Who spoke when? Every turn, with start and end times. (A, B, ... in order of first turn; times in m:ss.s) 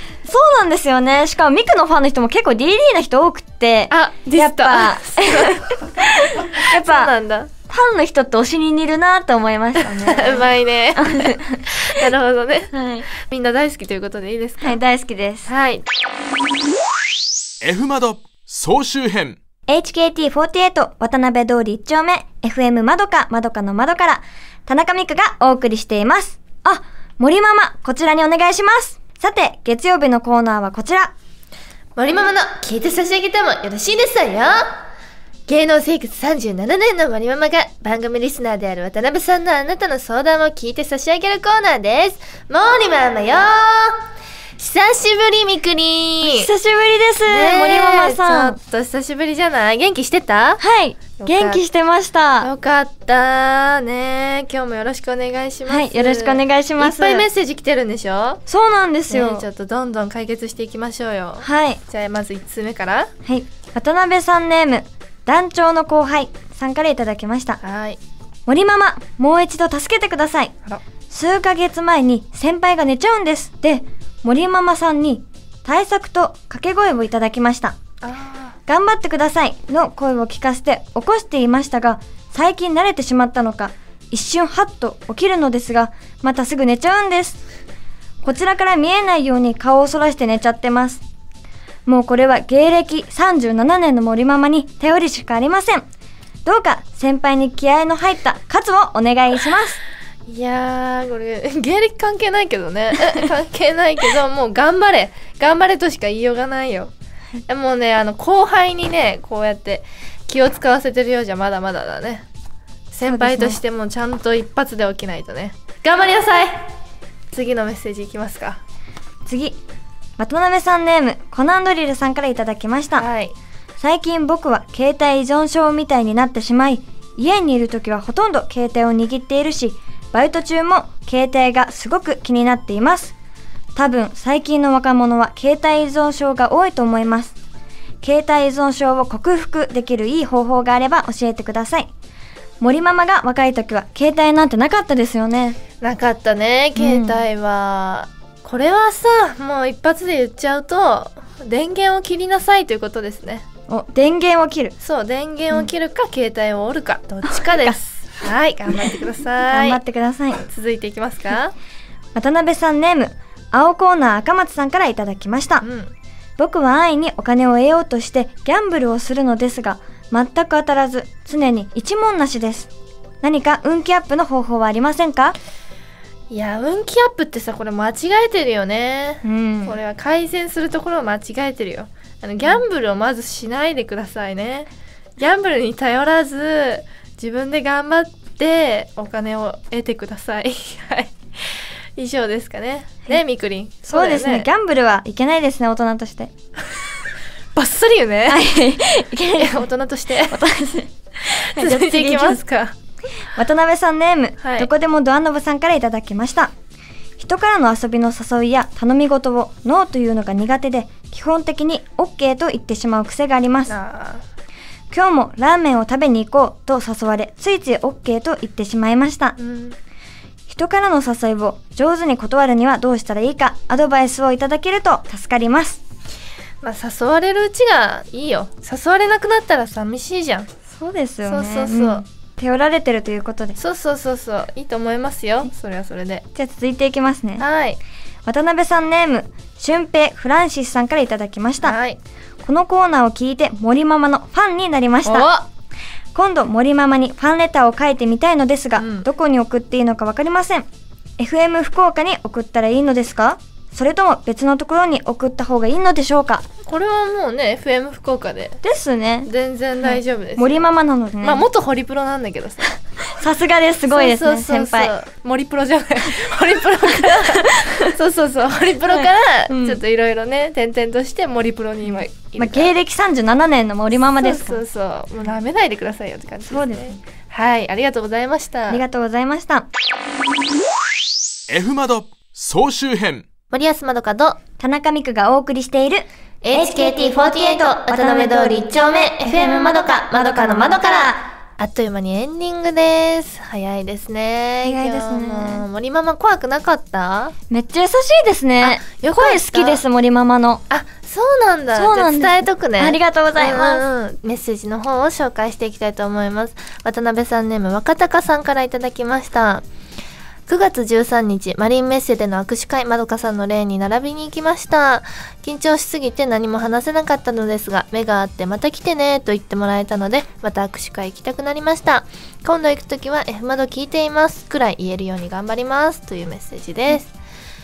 0:00.2-0:07.1 A
0:03.9-0:07.5 B
0:07.6-0:12.0 A
0:09.8-0:14.8 B
0:12.7-0:13.1 A
0:14.6-0:15.5 A
0:15.5-0:15.9 B
0:17.6-0:19.4 C
0:19.7-0:31.1 A
0:32.0-0:34.8 B
0:35.5-0:44.0 B
0:44.6-0:46.5 B
0:46.2-0:48.6 A
0:47.3-0:50.6 B
0:50.6-0:52.5 A
0:51.2-0:51.6 B
0:52.4-0:58.4 B
0:55.7-0:57.2 A
0:58.5-0:59.4 A
0:59.1-1:03.1 B
1:01.4-1:01.8 A
1:03.2-1:07.6 A
1:07.6-1:08.0 B
1:08.5-1:10.5 A
1:11.1-1:17.8 A
1:18.0-1:18.6 B
1:18.7-1:27.4 A
1:28.2-1:31.0 A
1:31.9-1:35.9 A
1:36.4-1:39.8 A
1:40.3-1:46.9 B
1:47.5-1:52.2 B
1:52.9-1:56.7 B
1:53.0-1:53.6 A
1:57.3-1:58.6 B
1:59.2-1:59.6 A
2:00.2-2:03.1 A
2:03.0-2:03.3 B
2:03.8-2:13.1 A
2:13.8-2:17.3 A
2:18.0-2:21.9 A
2:22.6-2:25.6 A
2:25.8-2:33.4 B
2:26.8-2:27.2 A
2:33.7-2:34.7 A
2:34.8-2:39.8 B
2:37.2-2:37.8 A
2:39.5-2:40.4 A
2:40.5-2:41.5 B
2:42.1-2:45.6 A
2:45.6-2:45.9 B
2:46.4-2:52.7 A
2:53.2-2:55.4 A
2:56.3-3:14.5 B
2:59.2-2:59.8 A
3:13.8-3:16.3 A
3:17.6-3:18.4 B
3:18.3-3:19.6 A
3:19.4-3:20.4 B
3:20.3-3:22.4 A
3:21.2-3:22.8 B
3:23.3-3:26.5 A
3:24.4-3:24.7 B
3:27.2-3:33.7 A
3:33.7-3:34.2 B
3:34.9-3:39.4 A
3:39.4-3:39.8 B
3:40.5-3:45.8 A
3:46.6-3:50.5 B
3:50.7-3:53.6 A
3:51.2-3:52.0 B
3:53.6-3:56.2 B
3:56.3-3:57.4 A
3:57.4-3:57.8 B
3:58.2-4:01.8 A
4:01.6-4:02.0 B
4:02.4-4:05.3 A
4:05.0-4:05.5 B
4:06.1-4:10.7 A
4:08.8-4:09.1 B
4:11.2-4:16.4 A
4:16.6-4:18.6 B
4:18.6-4:19.3 A
4:19.3-4:20.6 B
4:19.8-4:21.5 A
4:21.2-4:22.7 B
4:23.1-4:24.9 A
4:23.9-4:32.7 B
4:27.3-4:27.9 A
4:28.9-4:29.8 A
4:32.4-4:34.6 A
4:34.2-4:38.8 B
4:36.5-4:37.0 A
4:38.7-4:39.7 A
4:41.5-4:43.2 C
4:43.5-4:44.4 B
4:44.6-4:47.0 A
4:46.4-4:57.4 B
4:47.9-4:48.7 A
4:49.4-4:51.2 A
4:54.6-4:55.6 A
4:57.5-5:00.6 A
4:58.6-4:59.8 B
5:00.7-5:09.6 B
5:01.8-5:03.8 A
5:10.5-5:27.1 B